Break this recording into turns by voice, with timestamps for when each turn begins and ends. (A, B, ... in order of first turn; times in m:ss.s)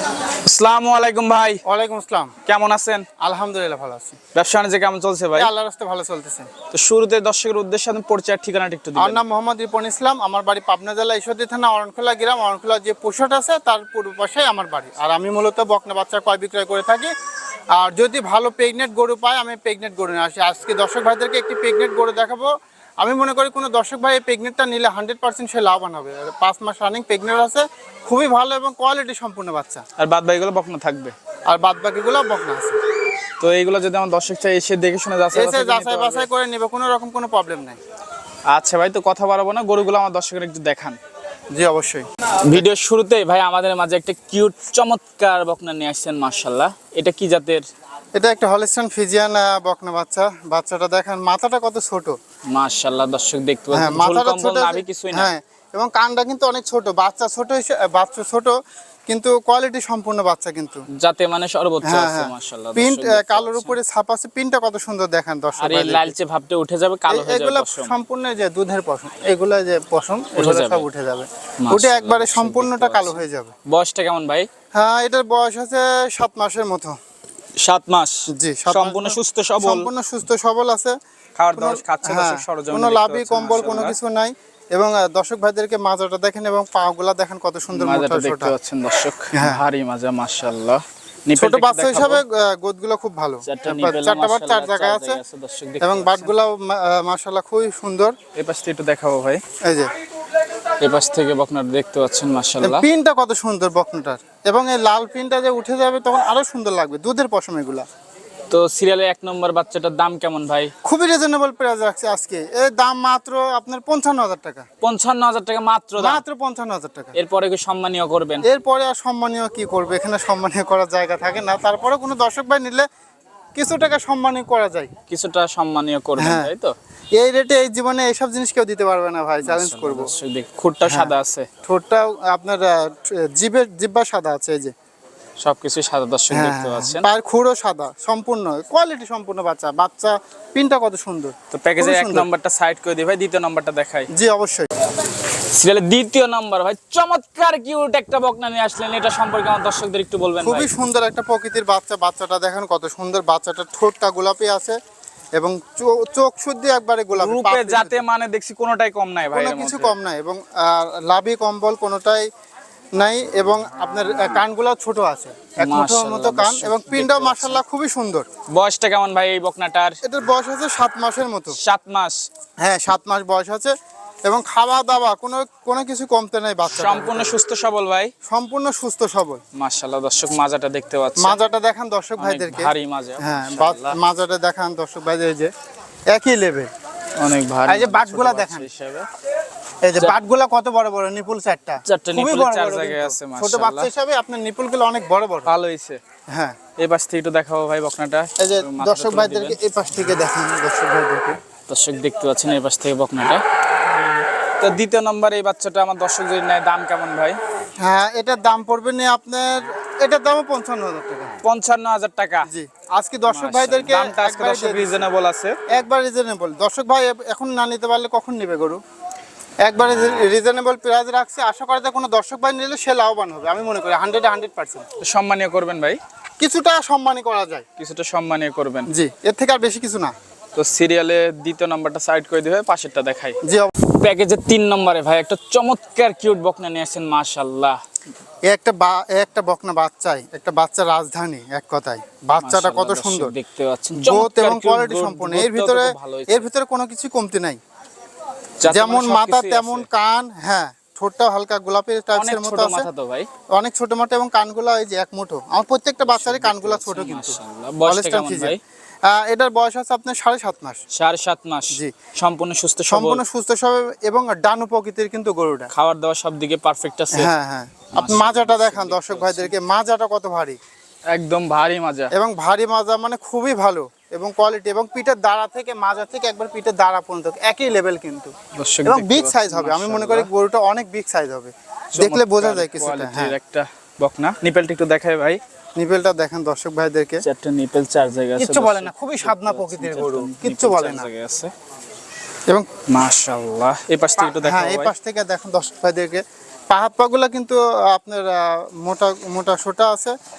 0:00.4-0:01.6 A
0:01.6-0:02.3 B
0:02.4-0:03.1 A
0:03.2-0:04.2 B
0:04.3-0:05.5 A
0:05.4-0:06.5 B
0:06.7-0:09.2 A
0:09.0-0:17.1 B
0:17.8-0:22.5 B
0:23.0-0:29.8 B
0:30.0-0:31.2 A
0:31.5-0:32.8 B
0:33.4-0:36.3 A
0:35.3-0:37.8 B
0:38.5-0:41.0 A
0:41.5-0:42.0 B
0:42.4-0:47.6 A
0:48.1-0:52.2 B
0:52.5-0:55.3 A
0:53.7-0:58.5 B
0:59.1-1:00.8 B
1:00.9-1:03.8 A
1:01.8-1:06.1 B
1:05.6-1:07.9 A
1:07.1-1:13.5 B
1:10.4-1:10.8 A
1:11.6-1:14.5 A
1:14.7-1:17.0 B
1:17.6-1:19.9 A
1:18.3-1:20.9 B
1:21.4-1:24.0 A
1:21.6-1:28.5 B
1:27.7-1:32.2 A
1:29.3-1:29.6 B
1:31.3-1:35.2 B
1:33.4-1:36.3 A
1:35.8-1:38.2 B
1:38.3-1:39.4 A
1:39.6-1:39.9 B
1:40.8-1:42.8 A
1:42.6-1:47.8 B
1:48.5-1:50.7 A
1:50.8-1:54.6 B
1:54.8-1:56.2 A
1:56.0-1:57.1 B
1:57.1-1:58.4 A
1:58.4-2:02.9 B
2:03.5-2:04.9 B
2:05.1-2:06.7 A
2:06.2-2:06.5 B
2:07.2-2:10.1 B
2:09.4-2:11.5 A
2:10.8-2:11.1 B
2:11.6-2:14.7 B
2:15.4-2:17.1 A
2:16.3-2:22.3 B
2:21.5-2:24.1 A
2:24.1-2:24.7 B
2:25.4-2:30.7 A
2:30.4-2:34.8 B
2:35.4-2:38.0 B
2:37.1-2:39.9 A
2:39.3-2:42.3 B
2:43.0-2:48.2 B
2:45.6-2:47.6 A
2:48.5-2:50.0 A
2:50.0-2:51.6 B
2:51.6-2:52.2 A
2:52.6-2:53.7 B
2:54.2-2:57.4 B
2:56.7-2:58.1 A
2:58.2-2:59.4 B
2:59.5-3:01.4 A
3:01.2-3:05.5 B
3:02.2-3:04.0 A
3:06.1-3:06.7 B
3:07.2-3:09.1 A
3:07.7-3:08.7 B
3:09.8-3:15.5 B
3:11.8-3:13.9 A
3:15.5-3:16.0 A
3:16.3-3:16.6 B
3:16.8-3:19.6 A
3:18.4-3:21.4 B
3:21.7-3:23.4 A
3:24.6-3:27.4 A
3:27.8-3:31.4 B
3:31.4-3:32.5 A
3:32.4-3:35.0 B
3:33.3-3:35.6 A
3:35.7-3:38.8 B
3:39.6-3:44.8 B
3:45.0-3:46.0 A
3:46.4-3:47.6 B
3:47.8-3:48.9 A
3:48.9-3:50.1 B
3:50.5-3:57.8 A
3:53.4-3:53.7 B
3:58.5-4:03.3 B
4:02.4-4:06.5 A
4:04.0-4:07.6 B
4:08.6-4:09.9 A
4:08.6-4:12.9 B
4:12.1-4:13.3 A
4:13.5-4:18.5 B
4:16.0-4:18.6 A
4:19.1-4:20.8 B
4:20.9-4:23.2 A
4:22.9-4:25.7 B
4:25.7-4:27.3 A
4:27.1-4:30.6 B
4:27.9-4:29.5 A
4:31.1-4:32.1 A
4:32.1-4:38.3 B
4:38.5-4:40.3 A
4:38.8-4:43.3 B
4:41.9-4:45.4 A
4:45.8-4:47.2 B
4:47.2-4:51.5 A
4:48.4-4:51.1 B
4:52.9-4:54.9 A
4:54.2-5:00.2 B